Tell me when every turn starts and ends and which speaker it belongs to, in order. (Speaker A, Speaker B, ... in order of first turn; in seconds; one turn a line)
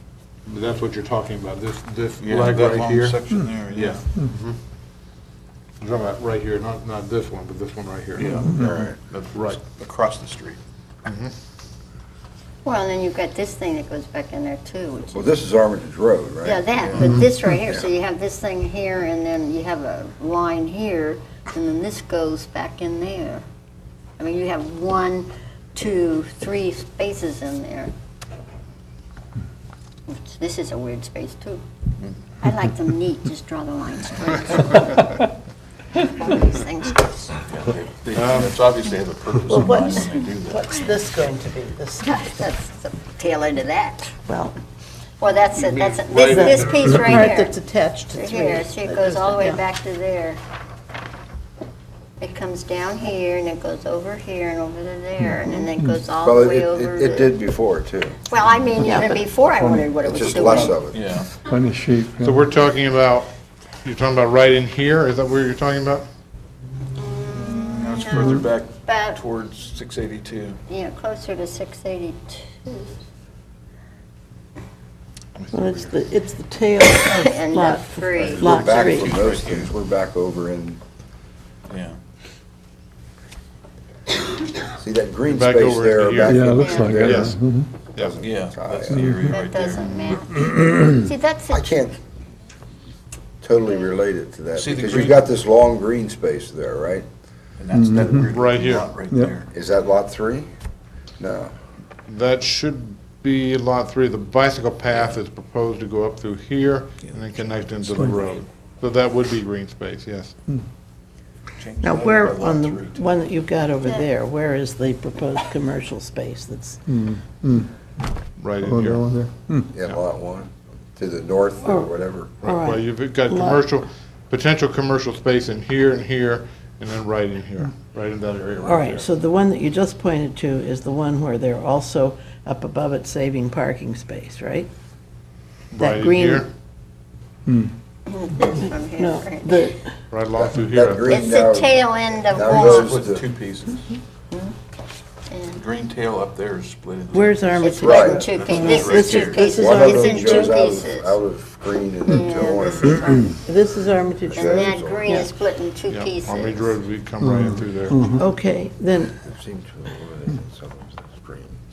Speaker A: 0.5-3.2
Speaker B: 2.2-4.0
Speaker A: 3.7-4.6
Speaker A: 5.8-8.7
Speaker B: 8.2-10.6
Speaker C: 8.6-8.9
Speaker A: 9.3-9.6
Speaker A: 11.0-11.3
Speaker D: 12.6-15.3
Speaker C: 15.1-16.6
Speaker D: 16.4-23.4
Speaker B: 16.8-17.2
Speaker D: 24.2-27.9
Speaker D: 30.1-31.6
Speaker D: 32.4-35.2
Speaker D: 36.0-37.3
Speaker B: 37.4-40.7
Speaker A: 38.1-38.5
Speaker E: 39.6-42.3
Speaker D: 42.0-44.1
Speaker E: 44.3-44.5
Speaker D: 45.2-47.5
Speaker A: 45.6-47.0
Speaker E: 46.2-49.6
Speaker D: 48.1-50.4
Speaker D: 52.2-57.3
Speaker C: 56.2-58.2
Speaker D: 58.3-60.8
Speaker E: 58.8-59.3
Speaker F: 59.5-60.4
Speaker C: 60.0-61.0
Speaker B: 60.2-61.3
Speaker F: 61.4-62.5
Speaker A: 62.2-63.3
Speaker A: 63.8-66.0
Speaker D: 67.0-69.2
Speaker B: 67.5-70.6
Speaker D: 70.7-73.0
Speaker A: 75.3-76.0
Speaker E: 75.5-79.6
Speaker D: 77.0-79.1
Speaker C: 78.4-80.8
Speaker B: 79.1-79.6
Speaker B: 81.7-82.0
Speaker C: 84.7-87.3
Speaker A: 85.3-87.4
Speaker F: 86.2-87.7
Speaker D: 86.5-87.0
Speaker C: 87.9-89.2
Speaker B: 88.2-90.0
Speaker D: 89.2-91.7
Speaker A: 89.8-90.2
Speaker C: 91.5-92.0
Speaker C: 93.4-97.0
Speaker B: 94.5-95.3
Speaker B: 97.6-99.5
Speaker F: 97.7-98.1
Speaker A: 98.2-98.9
Speaker C: 99.5-100.5
Speaker C: 101.2-101.5
Speaker A: 102.1-110.3
Speaker B: 107.1-108.4
Speaker B: 111.6-113.1
Speaker E: 111.8-117.1
Speaker F: 116.9-117.7
Speaker A: 118.4-119.1
Speaker F: 118.6-119.7
Speaker C: 119.7-122.5
Speaker E: 121.6-123.7
Speaker A: 122.4-129.1
Speaker E: 128.6-134.7
Speaker A: 135.7-136.5
Speaker E: 135.8-136.5
Speaker D: 138.1-139.7
Speaker E: 138.5-139.8
Speaker A: 140.1-141.2
Speaker C: 140.3-143.3
Speaker D: 141.1-143.0
Speaker B: 142.3-144.0
Speaker D: 145.3-145.6
Speaker B: 145.5-149.5
Speaker E: 147.1-150.7
Speaker D: 147.6-151.2
Speaker C: 147.8-148.2
Speaker C: 149.4-153.3
Speaker D: 152.1-153.4
Speaker E: 153.4-155.3
Speaker C: 154.2-155.2
Speaker D: 154.3-156.7
Speaker A: 155.9-158.2
Speaker F: 157.2-158.2
Speaker E: 158.1-159.1
Speaker C: 159.1-161.6